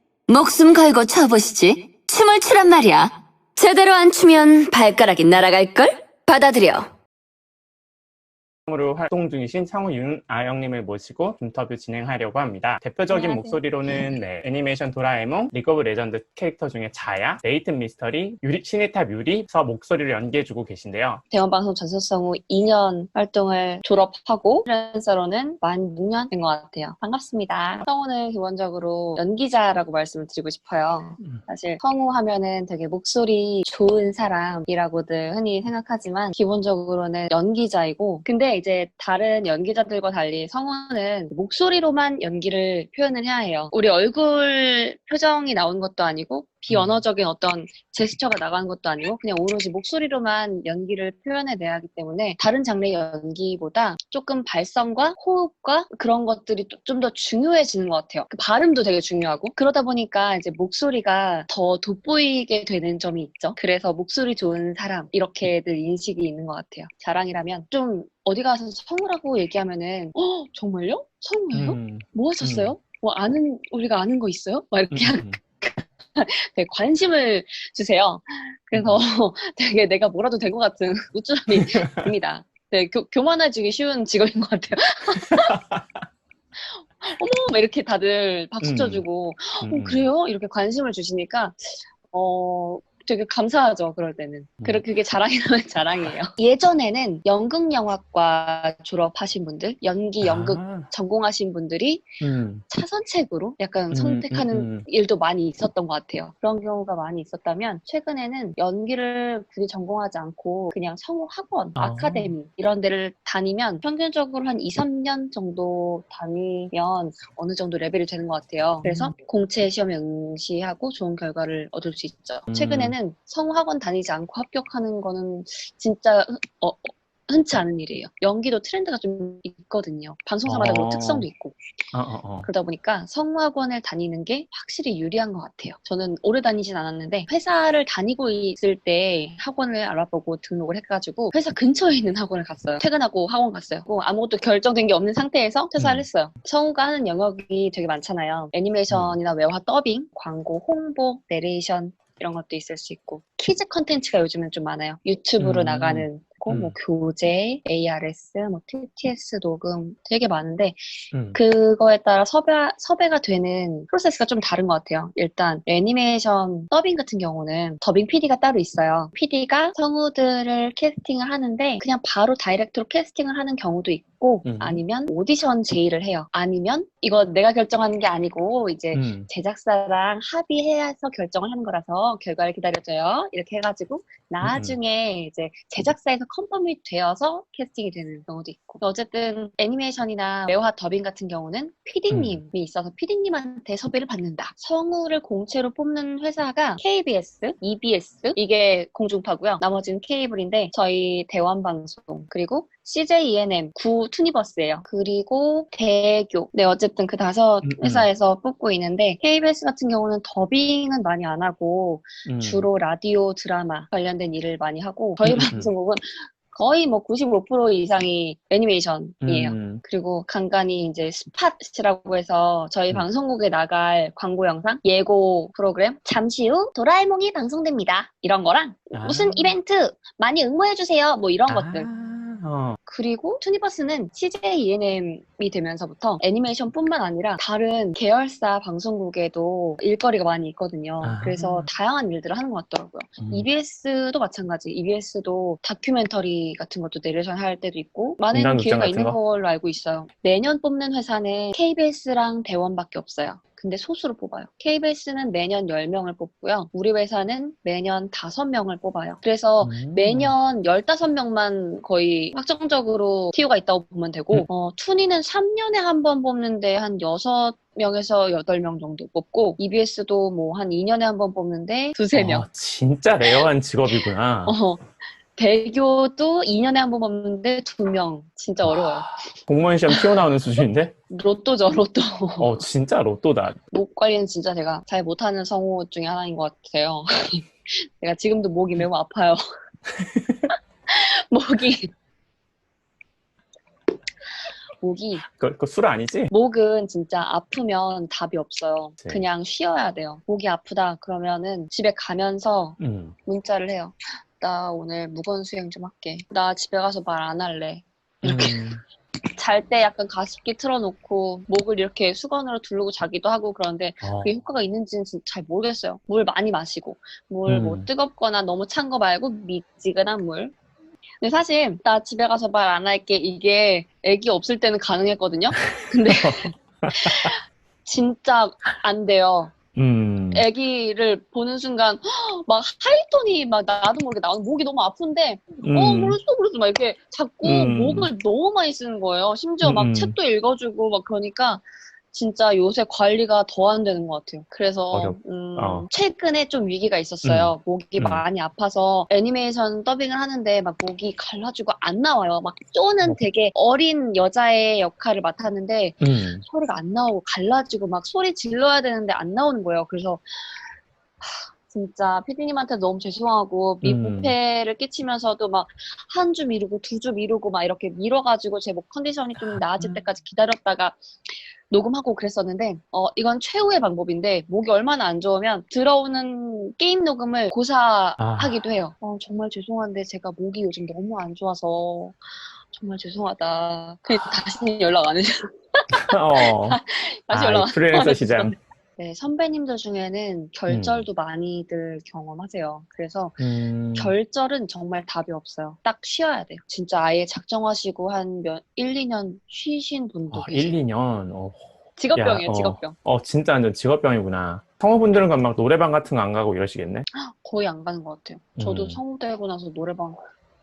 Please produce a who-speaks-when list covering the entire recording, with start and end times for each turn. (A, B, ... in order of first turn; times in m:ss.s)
0:00.3-0:06.9 A
0:08.7-0:21.2 B
0:13.1-0:14.0 C
0:21.3-1:25.6 C
1:11.5-1:12.7 B
1:14.9-1:15.4 B
1:18.8-1:19.0 B
1:21.5-1:22.1 B
1:25.3-1:25.9 B
1:26.6-2:11.6 C
1:28.6-1:29.0 B
1:29.6-1:30.1 B
1:40.2-1:40.9 B
1:42.2-1:42.6 B
1:43.9-1:44.9 B
1:51.8-1:52.3 B
1:58.8-1:59.2 B
2:02.5-2:03.0 B
2:10.4-2:11.3 B
2:11.9-2:12.5 B
2:12.4-2:40.8 C
2:25.8-2:26.0 B
2:28.9-2:29.2 B
2:35.4-2:36.8 B
2:41.1-2:41.4 B
2:41.3-3:51.9 C
2:54.4-2:54.8 B
2:58.9-2:59.3 B
3:04.4-3:04.8 B
3:12.1-3:12.4 B
3:27.6-3:28.1 B
3:32.3-3:32.7 B
3:35.2-3:35.7 B
3:39.2-3:39.8 B
3:48.9-3:49.6 B
3:51.5-3:52.8 B
3:52.9-4:32.5 C
4:01.0-4:01.7 B
4:03.2-4:03.5 B
4:08.3-4:09.2 B
4:19.6-4:20.4 B
4:32.1-4:34.6 B
4:33.3-4:34.8 C
4:35.4-4:39.1 C
4:38.6-4:40.9 B
4:39.9-4:40.2 C
4:41.1-4:42.6 C
4:42.4-4:43.6 B
4:43.7-4:49.4 C
4:50.9-4:51.9 C
4:54.8-4:55.2 C
4:55.3-4:56.3 B
4:56.3-5:08.7 C
5:02.8-5:03.2 B
5:08.2-5:08.8 B
5:09.4-5:20.5 C
5:14.0-5:14.3 B
5:17.5-5:17.9 B
5:21.2-5:29.6 C
5:25.5-5:27.3 B
5:29.8-5:30.4 B
5:30.3-6:00.7 C
5:35.6-5:36.2 B
5:37.4-5:38.1 B
5:39.6-5:40.2 B
5:44.9-5:45.9 B
5:47.2-5:48.2 B
5:56.0-5:56.4 B
6:01.2-6:11.0 C
6:03.8-6:04.3 B
6:09.4-6:10.0 B
6:11.7-6:22.2 C
6:18.2-6:18.6 B
6:22.7-6:40.8 C
6:25.9-6:26.8 B
6:27.3-6:28.5 B
6:30.7-6:31.0 B
6:33.4-6:34.2 B
6:40.3-6:41.6 B
6:42.0-6:43.0 C
6:42.2-6:47.1 B
6:47.2-6:50.2 C
6:48.6-6:49.0 B